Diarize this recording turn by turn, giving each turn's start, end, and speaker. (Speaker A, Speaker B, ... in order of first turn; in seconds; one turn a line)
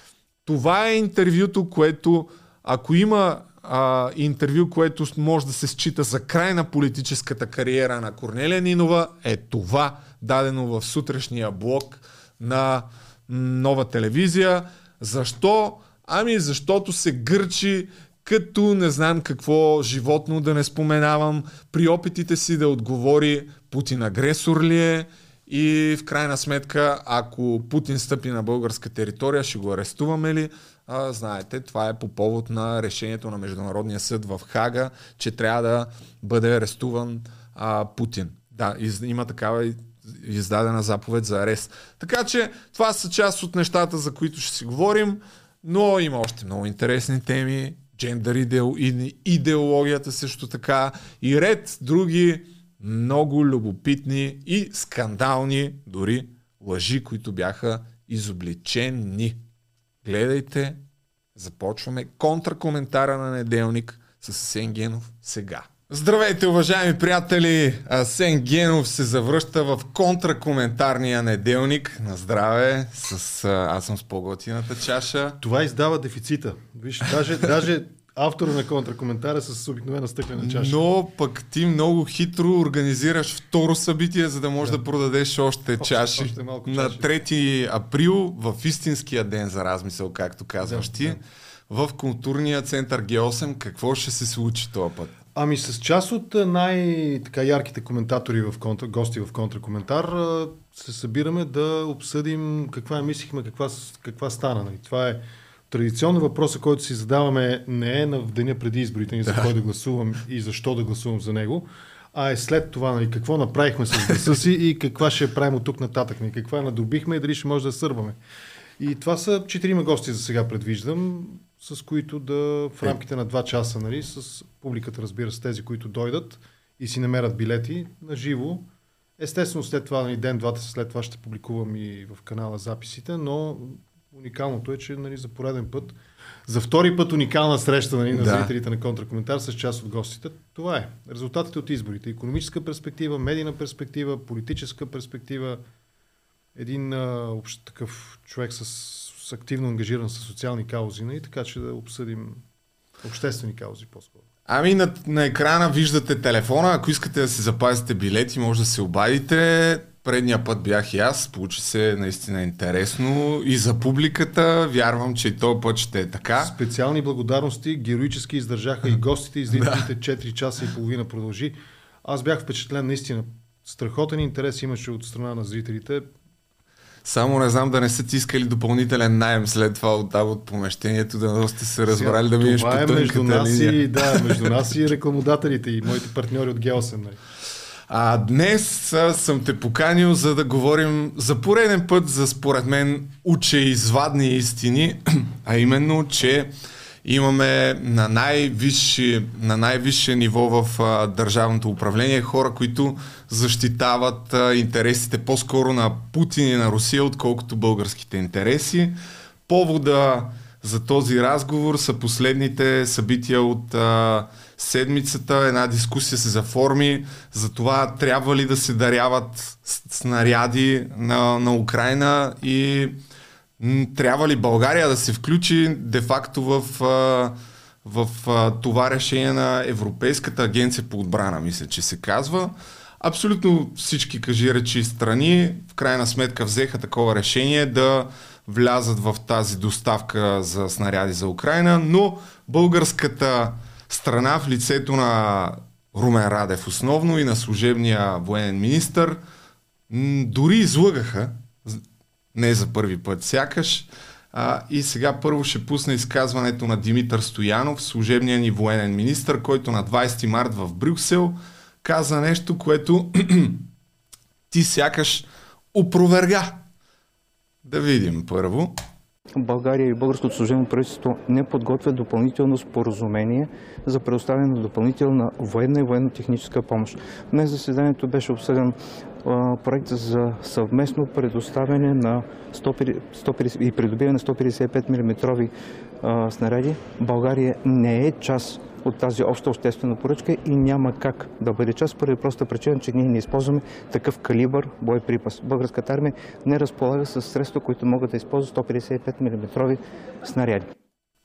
Speaker A: 0.5-59.4
Speaker A: 60.0-60.8
Speaker A: 61.4-75.4
Speaker B: 75.4-80.8
Speaker A: 80.4-91.2
Speaker B: 85.8-87.1
Speaker B: 90.6-91.2
Speaker A: 91.7-95.1
Speaker B: 95.3-118.2
Speaker B: 118.8-145.6
Speaker A: 138.1-138.5
Speaker B: 146.6-152.4
Speaker B: 153.0-154.2
Speaker A: 154.5-166.5
Speaker B: 166.4-176.1
Speaker A: 169.5-169.9
Speaker A: 177.1-184.4
Speaker B: 181.9-187.2
Speaker A: 187.9-196.5
Speaker A: 197.0-209.0
Speaker A: 209.5-223.0
Speaker A: 223.6-249.2
Speaker A: 249.9-251.8
Speaker A: 252.3-263.7
Speaker A: 264.5-266.6
Speaker A: 267.6-268.8
Speaker C: 269.4-300.7